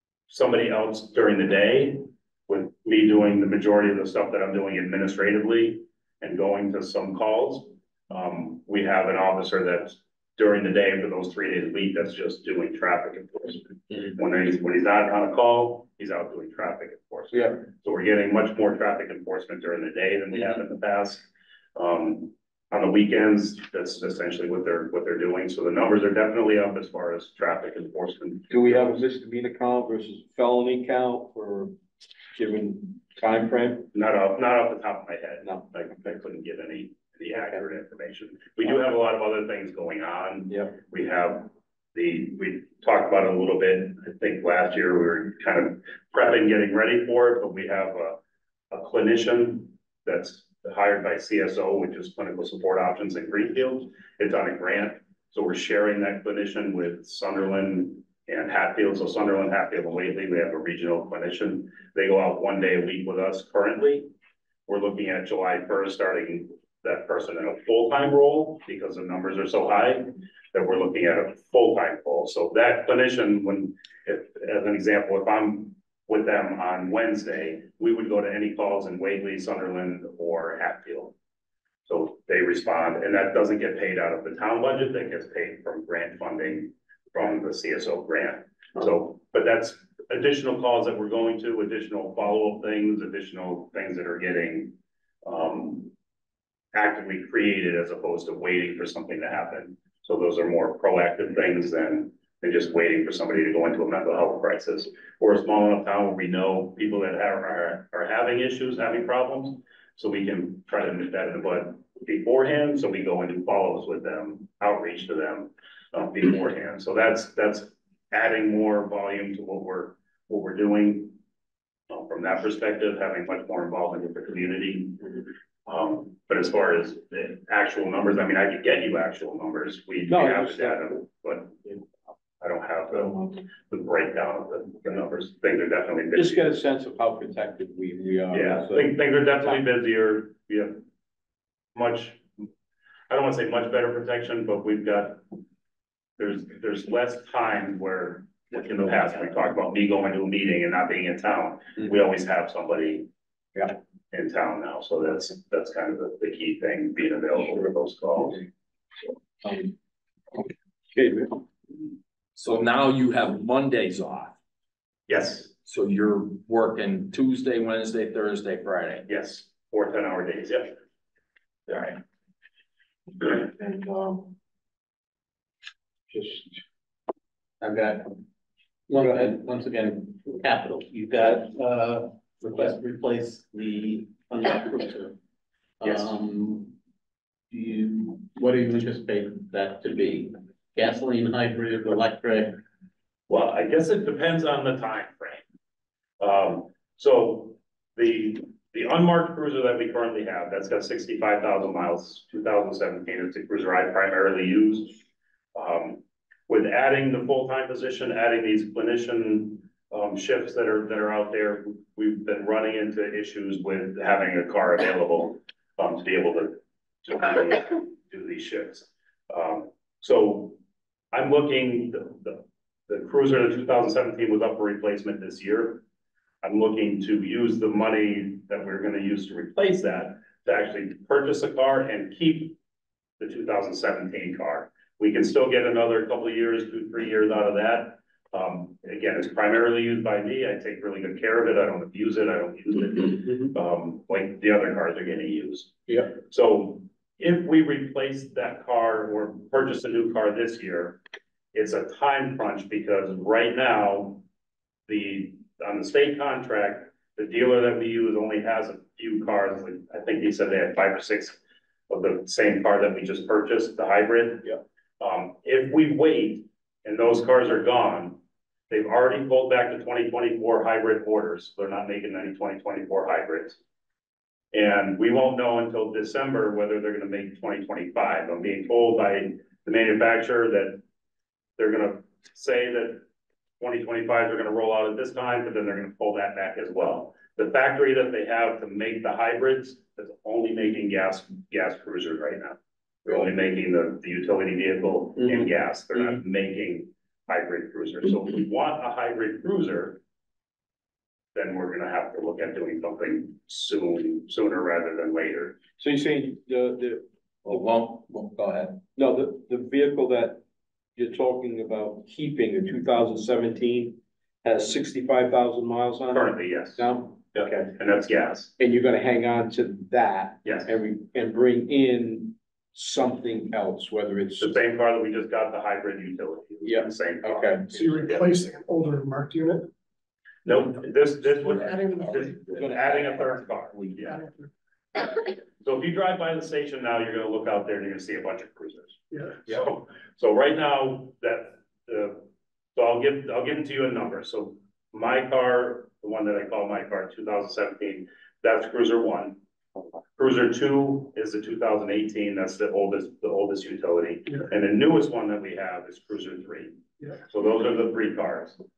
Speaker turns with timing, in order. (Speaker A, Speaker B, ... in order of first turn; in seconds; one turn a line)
Speaker A: 0.3-29.0
Speaker B: 17.3-17.6
Speaker B: 28.5-31.8
Speaker B: 32.4-33.9
Speaker A: 33.9-48.2
Speaker B: 35.4-36.2
Speaker B: 37.3-37.7
Speaker B: 40.5-40.8
Speaker A: 48.7-64.1
Speaker A: 64.7-81.2
Speaker A: 81.9-95.9
Speaker A: 96.7-121.2
Speaker A: 121.9-131.6
Speaker B: 130.1-130.9
Speaker A: 132.4-136.5
Speaker B: 132.9-133.4
Speaker B: 136.1-139.7
Speaker A: 138.3-140.8
Speaker A: 141.8-142.2
Speaker A: 143.1-145.2
Speaker A: 146.2-153.1
Speaker A: 154.1-158.4
Speaker B: 159.4-159.7
Speaker B: 160.9-161.5
Speaker C: 162.4-164.4
Speaker A: 165.1-165.5
Speaker C: 165.6-169.1
Speaker A: 169.1-170.8
Speaker B: 173.3-174.3
Speaker B: 176.1-176.6
Speaker D: 177.6-178.2
Speaker D: 178.9-185.2
Speaker B: 179.0-179.4
Speaker D: 185.8-186.8
Speaker D: 187.5-192.6
Speaker A: 193.3-195.4
Speaker A: 196.2-205.0
Speaker A: 205.6-220.6
Speaker A: 221.1-225.8
Speaker A: 226.4-232.6
Speaker A: 233.2-251.0
Speaker B: 245.9-246.1
Speaker A: 251.5-254.2
Speaker A: 254.9-261.4
Speaker A: 261.9-273.6
Speaker A: 274.5-280.8
Speaker A: 281.6-283.1
Speaker A: 283.6-300.0
Speaker A: 301.4-305.6
Speaker B: 305.8-307.6
Speaker C: 307.4-308.8
Speaker B: 309.0-310.4
Speaker B: 311.0-317.7
Speaker A: 316.1-318.5
Speaker B: 318.6-324.6
Speaker A: 320.4-320.8
Speaker A: 324.4-327.7
Speaker B: 326.6-327.8
Speaker E: 327.7-329.7
Speaker A: 330.4-334.2
Speaker C: 331.4-333.1
Speaker B: 332.6-333.5
Speaker C: 333.6-334.0
Speaker E: 334.0-334.5
Speaker A: 335.6-349.4
Speaker A: 350.2-356.8
Speaker A: 357.3-358.6